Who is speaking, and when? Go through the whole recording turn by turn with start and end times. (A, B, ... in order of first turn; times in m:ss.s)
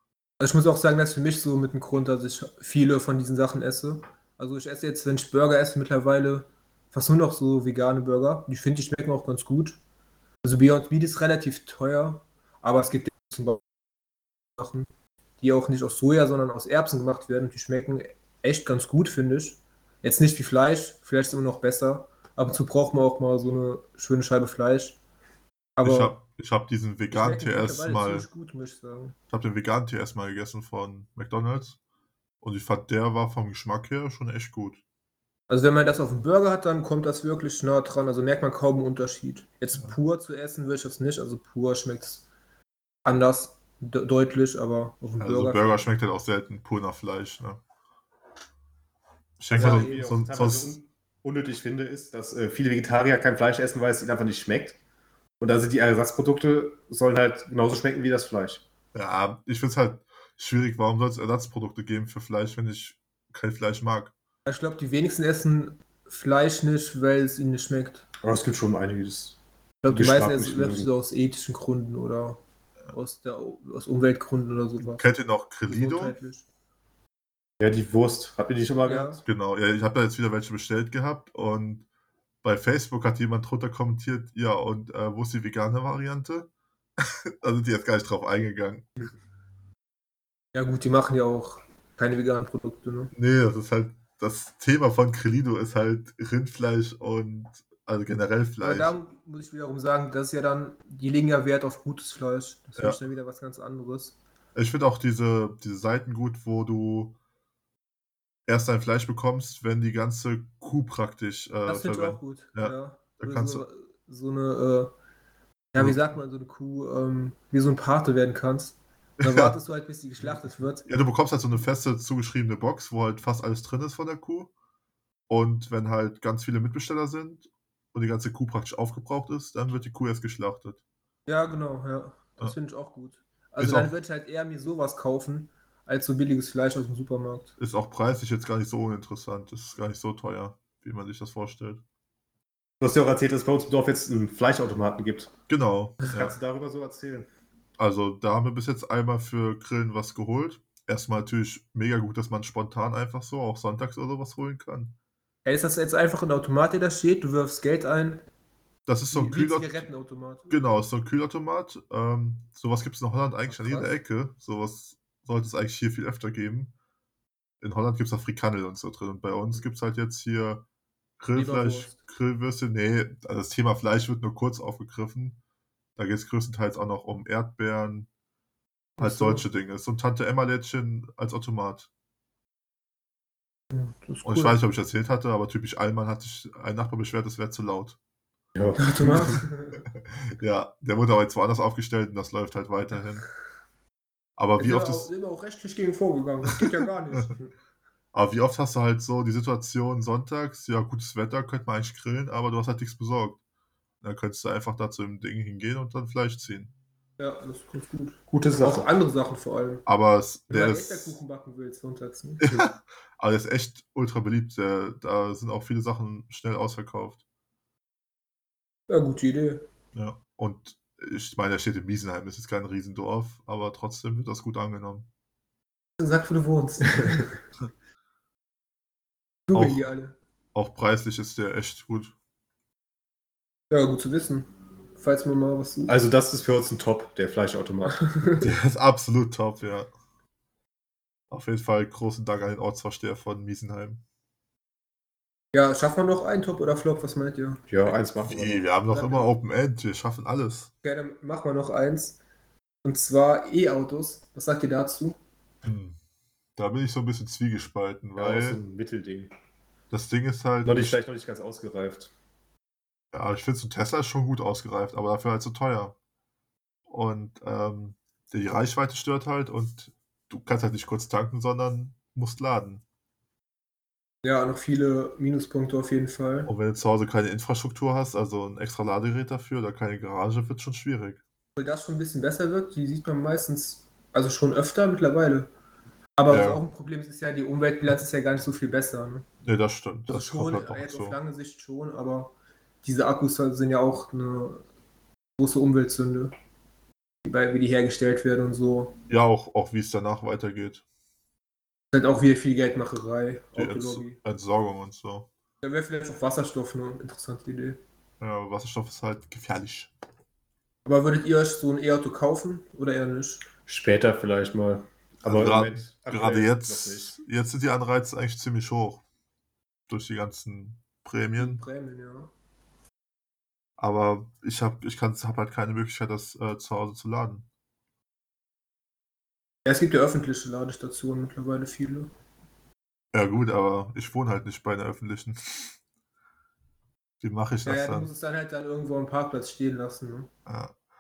0:00.4-0:09.8 A
0:10.4-0:13.6 A
0:14.6-0:14.9 A
0:15.4-0:25.0 A
0:25.8-0:26.2 A
0:25.8-0:28.3 B
0:27.1-0:29.2 A
0:29.3-0:31.8 B
0:32.4-0:34.8 B
0:35.5-0:42.2 A
0:43.0-0:45.8 A
0:45.2-0:47.6 B
0:49.4-0:50.8 B
0:49.5-0:54.8 C
0:49.5-0:50.0 A
0:55.4-0:58.6 C
0:58.9-1:04.1 B
1:04.5-1:08.1 A
1:08.2-1:09.4 C
1:09.8-1:12.4 A
1:09.9-1:10.9 C
1:12.9-1:15.0 A
1:14.8-1:16.2 B
1:15.7-1:16.5 A
1:17.6-1:19.2 C
1:18.8-1:19.2 A
1:19.3-1:21.9 B
1:22.4-1:29.0 B
1:30.5-1:33.1 A
1:33.1-1:39.0 B
1:38.6-1:44.2 A
1:44.6-1:47.2 B
1:48.5-1:53.6 B
1:51.7-1:54.9 A
1:55.7-2:00.9 A
1:59.2-1:59.6 B
2:00.9-2:04.5 B
2:05.3-2:10.8 B
2:11.3-2:17.5 A
2:13.6-2:13.9 B
2:17.6-2:21.8 B
2:22.8-2:25.3 C
2:25.5-2:26.4 B
2:26.0-2:27.3 C
2:27.8-2:34.9 B
2:35.4-2:38.3 A
2:38.9-2:39.9 B
2:39.1-2:40.5 A
2:40.5-2:46.7 B
2:43.5-2:43.9 A
2:47.6-2:50.6 B
2:51.2-2:55.4 B
2:51.3-2:52.0 A
2:56.0-2:58.1 B
2:59.0-2:59.4 A
2:59.0-3:01.9 B
3:03.7-3:04.6 A
3:04.2-3:08.0 B
3:08.6-3:09.4 C
3:08.8-3:09.8 A
3:10.3-3:13.3 B
3:14.4-3:15.1 B
3:14.6-3:17.5 A
3:16.5-3:17.2 B
3:18.1-3:23.4 B
3:24.0-3:26.7 B
3:27.2-3:29.8 A
3:28.3-3:28.9 C
3:29.9-3:31.2 B
3:30.5-3:32.5 A
3:32.4-3:37.2 B
3:38.9-3:39.7 A
3:40.0-3:45.1 B
3:46.0-3:47.4 A
3:49.5-3:50.2 A
3:49.5-3:49.9 B
3:50.5-3:52.2 B
3:53.7-3:55.9 A
3:55.9-3:58.1 C
3:58.1-3:58.4 A
3:58.4-3:59.9 B
4:01.3-4:04.0 B
4:05.5-4:08.0 A
4:07.7-4:08.6 C
4:08.2-4:10.7 B
4:08.9-4:09.3 A
4:10.8-4:12.2 A
4:12.8-4:15.2 A
4:15.6-4:16.0 B
4:16.6-4:18.6 B
4:18.2-4:19.3 C
4:19.9-4:21.0 B
4:20.6-4:22.1 C
4:23.1-4:26.0 B
4:26.9-4:32.8 B
4:34.2-4:36.5 A
4:36.5-4:41.2 B
4:41.6-4:45.5 A
4:46.2-4:49.3 A
4:46.3-4:46.6 B
4:49.4-4:51.2 B
4:50.1-4:54.6 A
4:55.4-4:56.3 A
4:57.2-4:59.0 A
4:59.1-5:00.8 B
5:01.9-5:04.2 A
5:03.6-5:05.3 B
5:05.6-5:07.8 A
5:08.2-5:09.9 B
5:10.8-5:13.4 A
5:13.7-5:17.2 C
5:15.2-5:19.0 B
5:19.9-5:21.6 B
5:21.4-5:22.3 A
5:23.8-5:27.5 B
5:29.6-5:32.1 A
5:33.1-5:35.8 B
5:37.2-5:38.1 B
5:37.7-5:40.3 A
5:40.5-5:40.8 B